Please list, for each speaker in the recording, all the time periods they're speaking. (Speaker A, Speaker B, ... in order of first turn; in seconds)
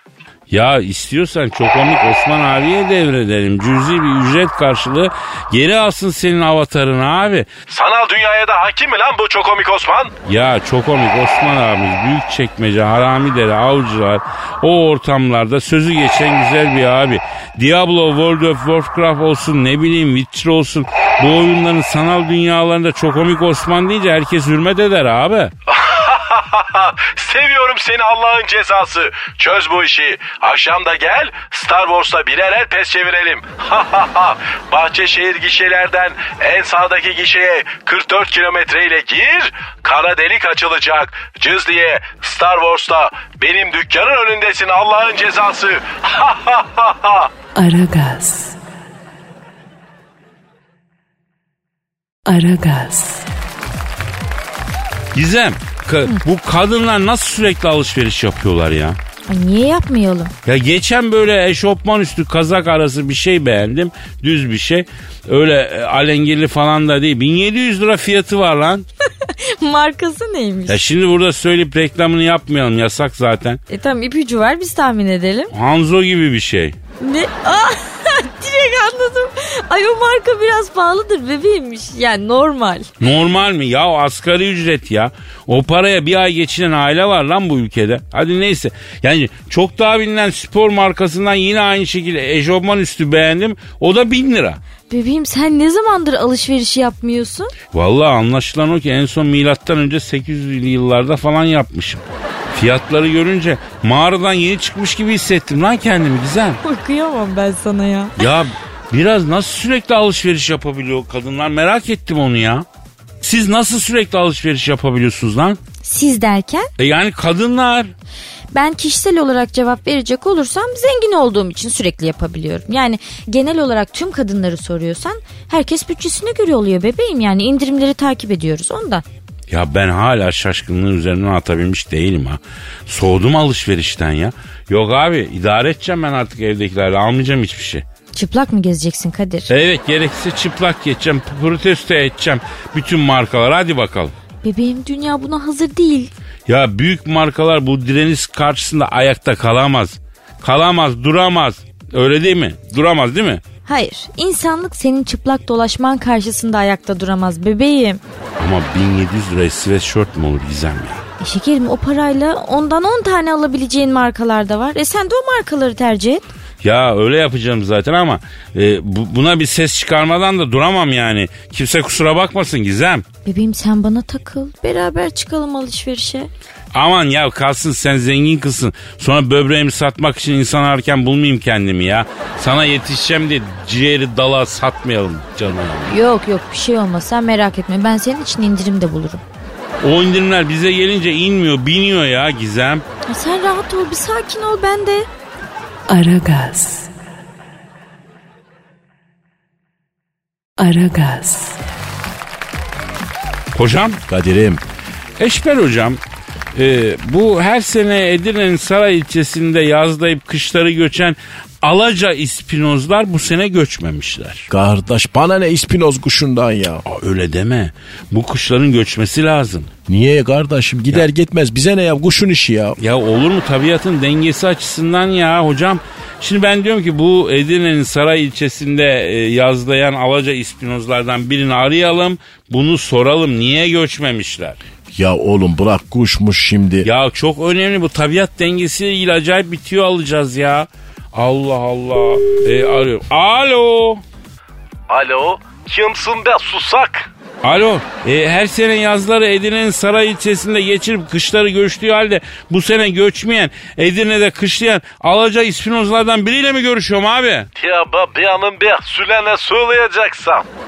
Speaker A: 0.5-7.5, 10.2-25.5, 55.1-59.0, 60.4-68.8, 70.7-73.6, 75.5-76.8, 83.0-94.6, 97.7-106.6, 108.2-112.6, 113.2-115.6, 116.8-117.9, 129.5-137.8, 139.5-144.1, 146.5-153.4, 158.4-161.0, 166.6-173.0, 176.7-185.9, 189.8-192.8, 203.5-204.0, 205.2-206.0, 206.5-214.5, 216.8-219.7, 222.8-234.6, 236.8-244.0, 247.4-257.5
Speaker B: 7.7-10.1, 25.7-47.3
Speaker C: 47.5-48.6, 52.2-53.3, 195.9-196.9, 200.6-201.6
Speaker D: 59.3-60.3, 69.2-70.8, 73.7-75.5, 77.0-82.9, 94.9-97.5, 106.6-108.2, 115.8-116.7, 118.5-129.0, 138.1-139.5, 144.4-146.1, 153.7-158.0, 161.2-166.2, 173.2-176.3, 185.9-189.2, 193.1-195.1
Speaker E: 204.1-204.6, 214.5-216.8, 219.9-222.8, 234.9-236.9
Speaker F: 244.9-247.1, 257.6-260.4